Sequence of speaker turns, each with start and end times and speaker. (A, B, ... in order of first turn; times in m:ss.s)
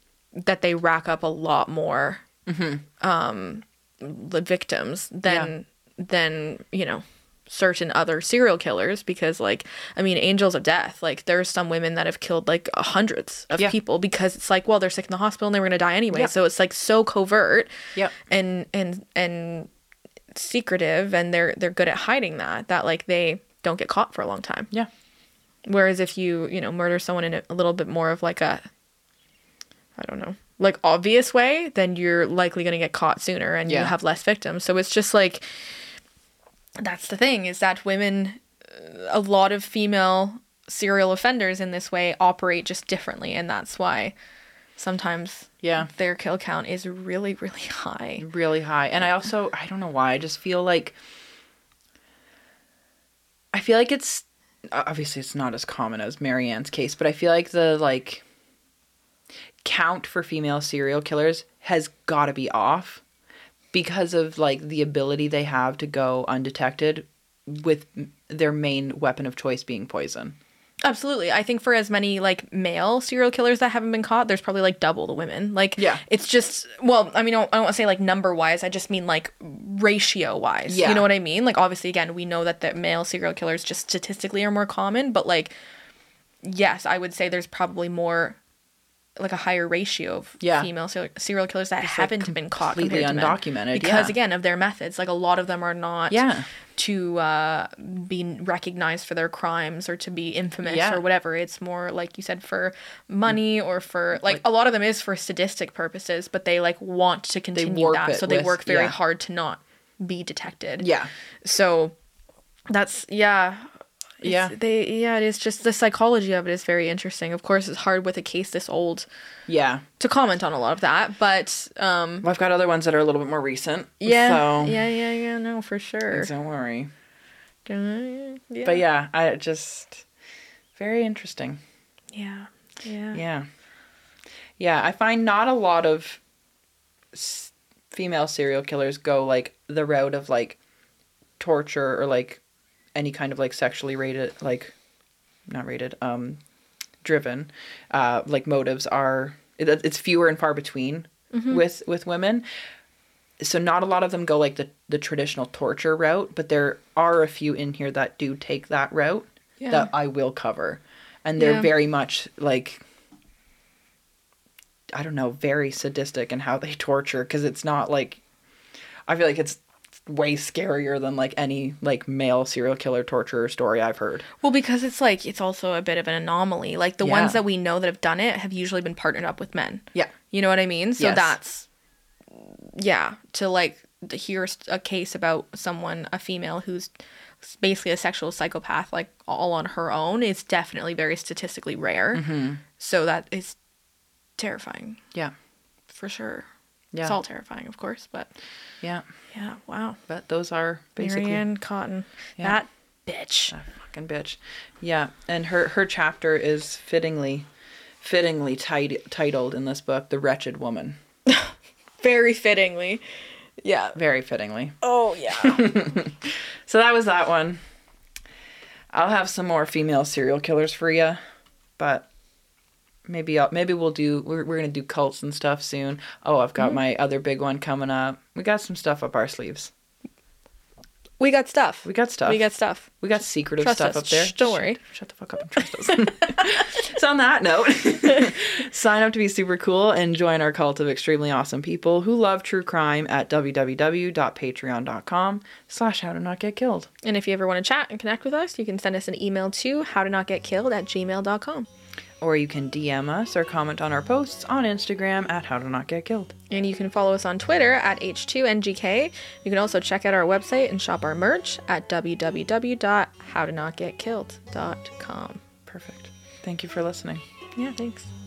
0:00.4-0:02.2 A
0:02.5-0:02.8 B
0:03.0-0:19.7 A
0:05.2-0:05.5 B
0:20.3-0:24.7 A
0:25.6-0:28.6 A
0:30.0-0:35.6 A
0:33.7-0:33.9 B
0:36.8-0:44.1 A
0:44.8-0:48.2 A
0:45.6-0:45.9 B
0:48.2-0:51.0 B
0:53.5-0:58.2 B
0:59.6-1:03.0 B
1:03.7-1:10.4 B
1:10.8-1:25.5 A
1:15.8-1:16.0 B
1:20.7-1:21.1 B
1:26.4-1:28.4 A
1:29.2-1:36.2 A
1:30.4-1:30.7 B
1:31.8-1:34.1 B
1:36.1-1:36.5 B
1:36.7-1:50.8 A
1:40.6-1:41.0 B
1:47.5-1:49.0 B
1:50.8-1:51.1 B
1:51.4-1:51.9 A
1:52.7-1:53.7 A
1:54.2-1:54.5 B
1:54.2-1:59.0 A
1:59.5-1:59.8 B
2:00.0-2:02.2 A
2:02.2-2:04.9 B
2:04.0-2:06.3 A
2:06.1-2:06.9 B
2:07.6-2:08.8 A
2:08.6-2:10.0 B
2:10.8-2:11.6 B
2:12.1-2:13.2 A
2:13.1-2:13.5 B
2:14.6-2:16.2 B
2:17.1-2:20.6 B
2:21.4-2:22.4 B
2:23.0-2:24.7 B
2:25.5-2:26.4 B
2:27.0-2:32.4 B
2:31.3-2:31.6 A
2:33.4-2:42.8 B
2:39.6-2:39.9 A
2:41.4-2:41.7 A
2:44.9-2:48.2 B
2:49.1-2:54.3 B
2:54.4-3:01.7 A
2:57.0-2:57.4 B
3:01.0-3:01.4 B
3:02.3-3:12.2 A
3:12.1-3:12.6 B
3:12.7-3:13.6 A
3:14.4-3:15.0 A
3:15.9-3:16.5 A
3:17.0-3:18.3 A
3:19.3-3:20.0 A
3:20.1-3:21.4 B
3:21.0-3:23.5 A
3:23.5-3:27.5 B
3:28.0-3:31.0 B
3:31.3-3:33.0 A
3:33.6-3:34.0 A
3:33.9-3:37.6 B
3:34.8-3:35.6 A
3:38.9-3:41.2 B
3:41.8-3:42.1 B
3:43.1-3:49.7 B
3:51.2-3:52.9 A
3:51.8-3:52.4 B
3:53.0-4:06.9 B
3:53.6-3:54.8 A
4:07.0-4:11.7 A
4:12.2-4:16.3 B
4:16.5-4:25.4 A
4:25.7-4:27.2 B
4:27.5-4:28.1 A